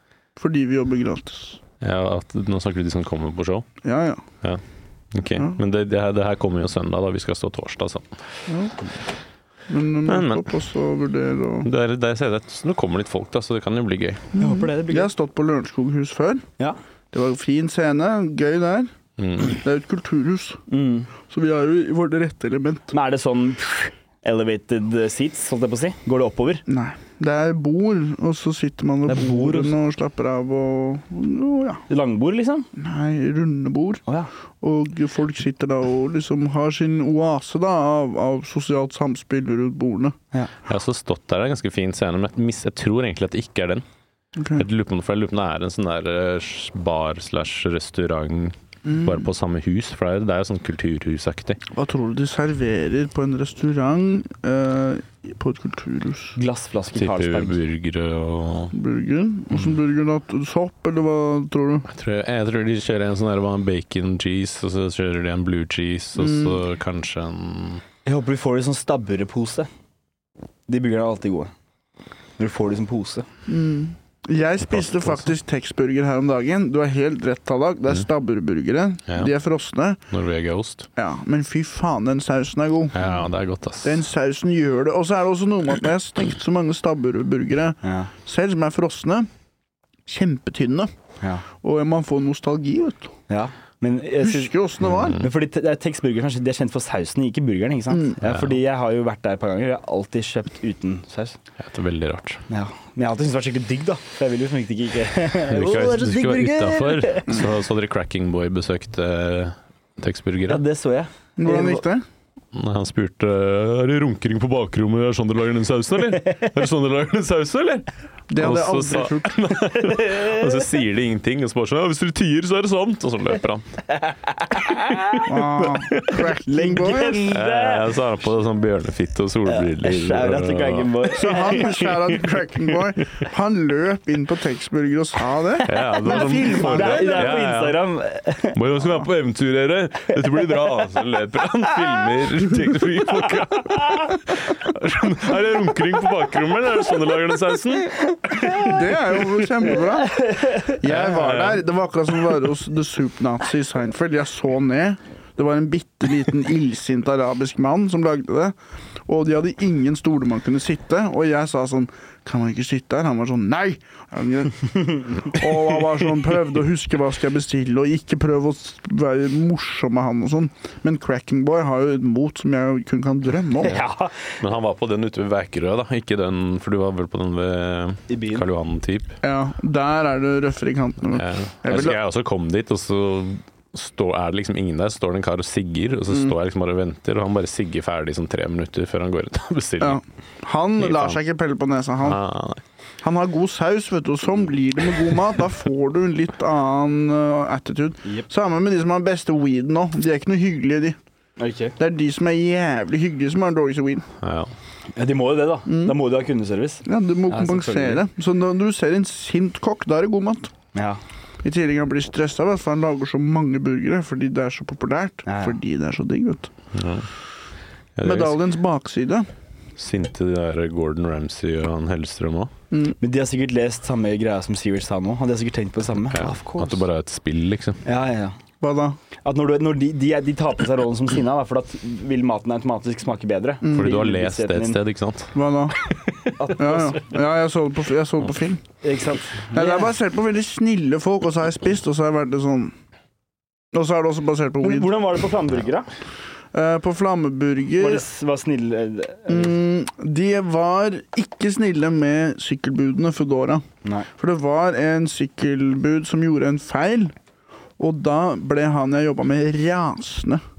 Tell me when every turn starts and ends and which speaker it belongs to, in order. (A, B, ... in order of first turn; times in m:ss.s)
0:00.4-0:01.6 A
0:01.8-0:03.7 B
0:03.8-0:04.2 A
0:05.1-0:08.2 B
0:08.5-0:08.7 A
0:09.7-0:11.7 A
0:10.0-0:10.6 B
0:11.6-0:14.3 B
0:14.4-0:16.5 A
0:14.4-0:15.1 C
0:17.1-0:18.9 A
0:19.2-0:19.6 B
0:19.4-0:20.6 A
0:20.7-0:21.1 C
0:21.3-0:22.9 A
0:22.9-0:26.6 C
0:26.7-0:31.8 A
0:29.1-0:29.7 C
0:31.9-0:32.7 C
0:32.8-0:34.0 A
0:34.6-0:40.2 A
0:40.7-0:43.8 B
0:44.4-0:44.6 A
0:44.6-0:51.6 B
0:48.8-0:49.2 A
0:51.7-0:56.4 A
0:56.4-0:57.6 C
0:57.0-0:58.7 B
0:58.7-1:01.9 A
1:01.9-1:07.8 B
1:06.2-1:06.6 A
1:08.0-1:09.7 C
1:10.7-1:11.5 C
1:12.4-1:13.3 C
1:13.5-1:20.0 A
1:14.7-1:15.3 B
1:20.1-1:20.9 B
1:21.0-1:23.0 A
1:22.9-1:24.0 B
1:23.8-1:29.3 A
1:27.8-1:28.1 C
1:30.0-1:30.9 A
1:31.6-1:33.1 A
1:33.3-1:41.4 C
1:34.2-1:35.2 A
1:34.9-1:35.2 B
1:38.2-1:38.5 B
1:41.6-1:42.4 B
1:42.5-1:47.4 C
1:45.3-1:50.6 B
1:50.5-1:51.8 C
1:51.4-1:52.0 A
1:52.5-2:03.7 B
1:58.3-1:59.6 A
2:00.1-2:00.4 C
2:04.1-2:07.9 C
2:04.9-2:05.2 B
2:05.2-2:07.3 A
2:07.3-2:12.2 B
2:09.4-2:11.8 C
2:11.1-2:17.4 A
2:15.6-2:18.6 C
2:15.6-2:17.8 B
2:18.5-2:29.2 B
2:28.5-2:38.5 A
2:30.2-2:30.7 C
2:30.8-2:31.6 B
2:39.1-2:53.8 A
2:53.6-2:54.3 C
2:53.7-2:59.2 B
2:58.1-2:58.4 C
2:59.2-3:02.0 A
3:01.1-3:10.0 B
3:09.8-3:12.2 A
3:10.8-3:11.2 B
3:12.0-3:12.6 B
3:13.0-3:21.0 A
3:21.4-3:21.7 C
3:21.8-3:24.1 A
3:24.2-3:24.5 B
3:25.0-3:28.0 C
3:25.7-3:25.9 A
3:26.8-3:30.5 A
3:30.7-3:31.0 C
3:31.4-3:36.5 A
3:35.3-3:35.6 C
3:36.7-3:37.1 B
3:38.0-3:38.4 B
3:38.0-3:39.3 A
3:39.8-3:42.5 B
3:42.7-3:43.0 A
3:43.0-3:46.8 C
3:46.1-3:47.8 B
3:47.8-3:48.4 C
3:48.6-3:49.0 A
3:49.2-3:54.8 C
3:53.6-3:53.9 A
3:53.7-3:56.3 B
3:55.3-3:55.8 A
3:56.4-3:57.0 C
3:56.5-3:58.6 A
3:58.8-3:59.9 C
3:59.5-4:02.7 A
4:03.7-4:04.9 A
4:04.6-4:05.9 C
4:06.5-4:08.0 A
4:07.8-4:09.5 C
4:09.3-4:13.6 A
4:14.2-4:17.1 A
4:17.8-4:20.4 A